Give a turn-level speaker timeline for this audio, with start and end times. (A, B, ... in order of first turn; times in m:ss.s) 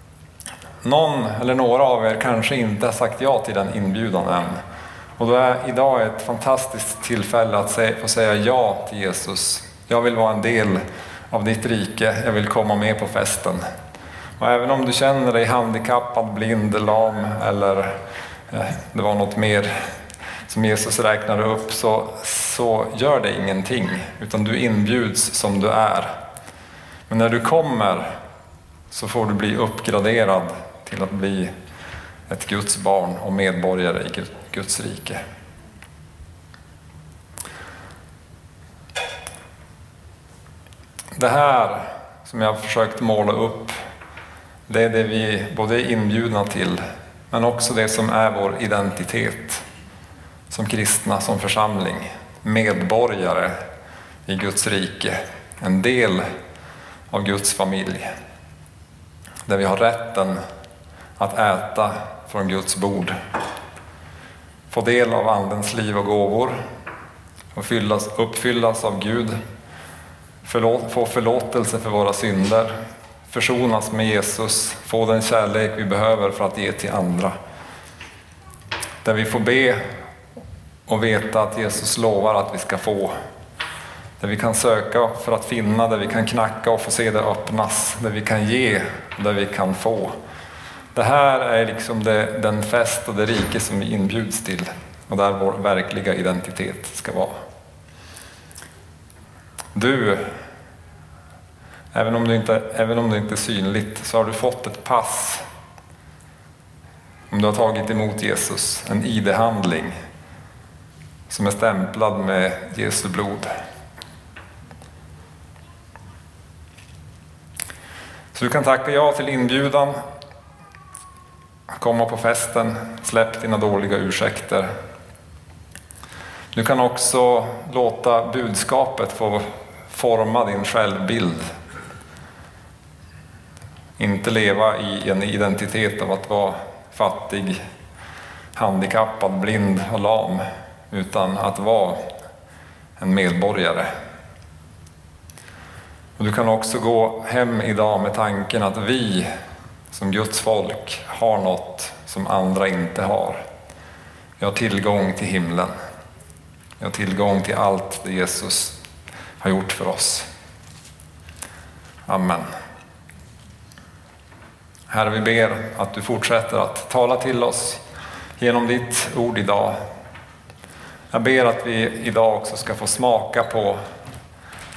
0:00.8-0:04.6 A
0:05.2-0:13.6 A
0:14.4-0:18.0 A
0:18.5-0:19.7 A
0:20.5-0:26.1 A
0:27.1-0:28.1 A
0:28.9-0:31.5 A
0:32.3-0:35.2 A
0:41.2-0:43.7 A
0:44.7-0:49.6 A
0:50.5-0:53.5 A
0:54.3-0:56.3 A
0:57.1-0:58.1 A
0:59.5-1:00.4 A
1:01.2-1:03.2 A
1:04.7-1:06.6 A
1:07.5-1:09.4 A
1:10.4-1:12.8 A
1:13.3-1:17.3 A
1:19.0-1:19.8 A
1:20.9-1:23.1 A
1:24.2-1:30.1 A
1:30.9-1:37.3 A
1:39.7-1:40.3 A
1:41.9-1:45.4 A
1:47.3-1:50.0 A
1:51.3-1:53.5 A
1:58.3-2:00.0 A
2:01.7-2:04.7 A
2:06.5-2:11.4 A
2:14.0-2:17.6 A
2:18.6-2:22.0 A
2:23.0-2:23.9 A
2:26.2-2:29.3 A
2:29.9-2:33.4 A
2:34.4-2:35.7 A
2:36.8-2:38.7 A
2:39.4-2:40.3 A
2:42.1-2:42.5 A
2:44.9-2:47.8 A
2:48.4-2:49.8 A
2:51.1-2:53.8 A